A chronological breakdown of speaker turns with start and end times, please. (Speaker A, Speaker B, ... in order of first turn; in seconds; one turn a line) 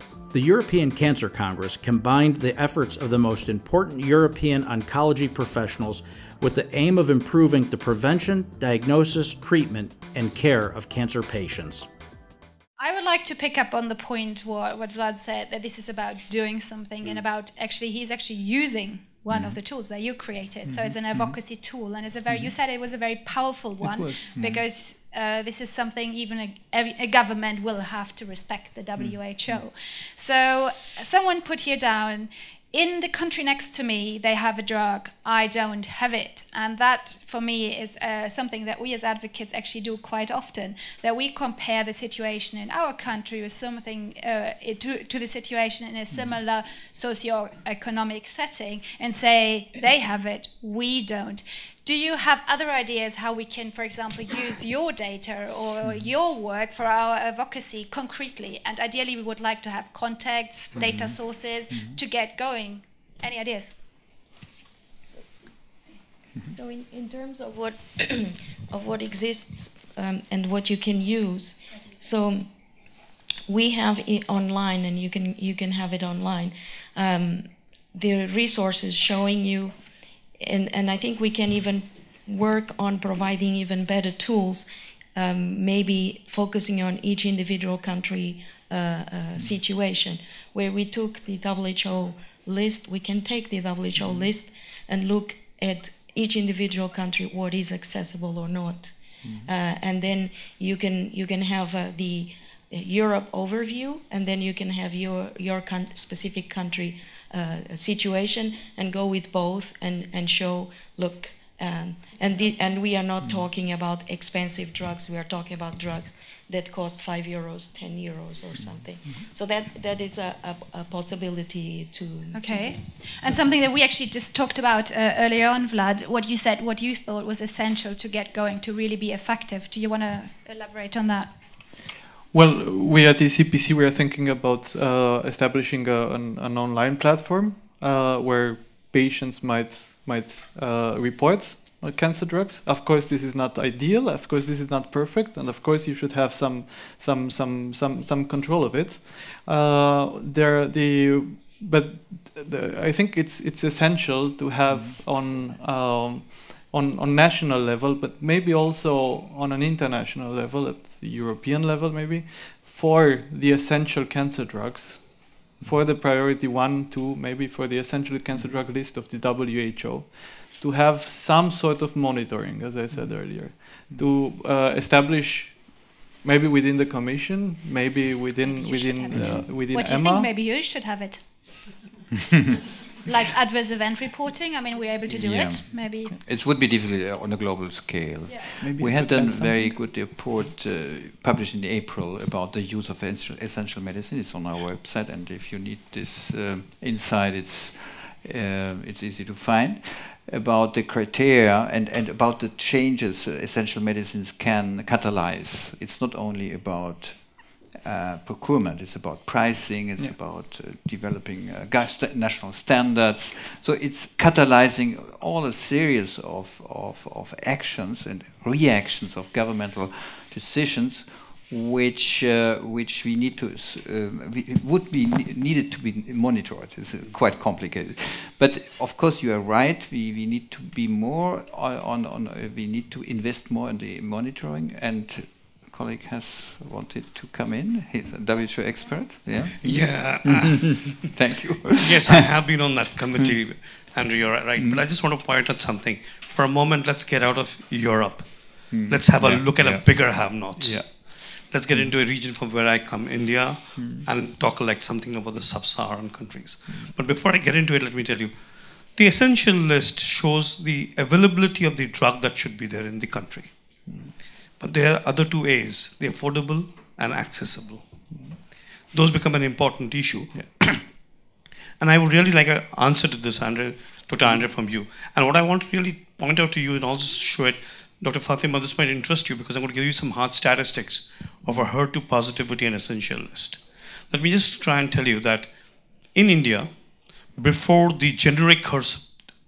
Speaker A: 0.3-11.9
Speaker B: 12.8-63.7
Speaker C: 19.3-19.6
Speaker D: 23.8-24.2
Speaker C: 24.4-24.6
Speaker C: 29.0-29.6
Speaker C: 55.8-56.1
Speaker C: 60.8-62.0
Speaker E: 66.5-72.5
Speaker E: 73.5-79.7
Speaker E: 80.4-122.8
Speaker C: 118.5-119.2
Speaker B: 122.3-131.4
Speaker D: 132.3-180.3
Speaker C: 154.7-154.9
Speaker B: 178.4-181.5
Speaker B: 183.0-186.2
Speaker C: 185.1-243.4
Speaker D: 188.6-189.5
Speaker F: 239.6-240.8
Speaker F: 241.6-263.8
Speaker C: 244.6-244.8
Speaker C: 248.7-250.9
Speaker C: 253.7-254.1
Speaker C: 263.9-264.1
Speaker F: 264.6-267.9
Speaker C: 268.1-268.4
Speaker F: 268.9-271.0
Speaker F: 271.8-286.7
Speaker F: 287.2-289.1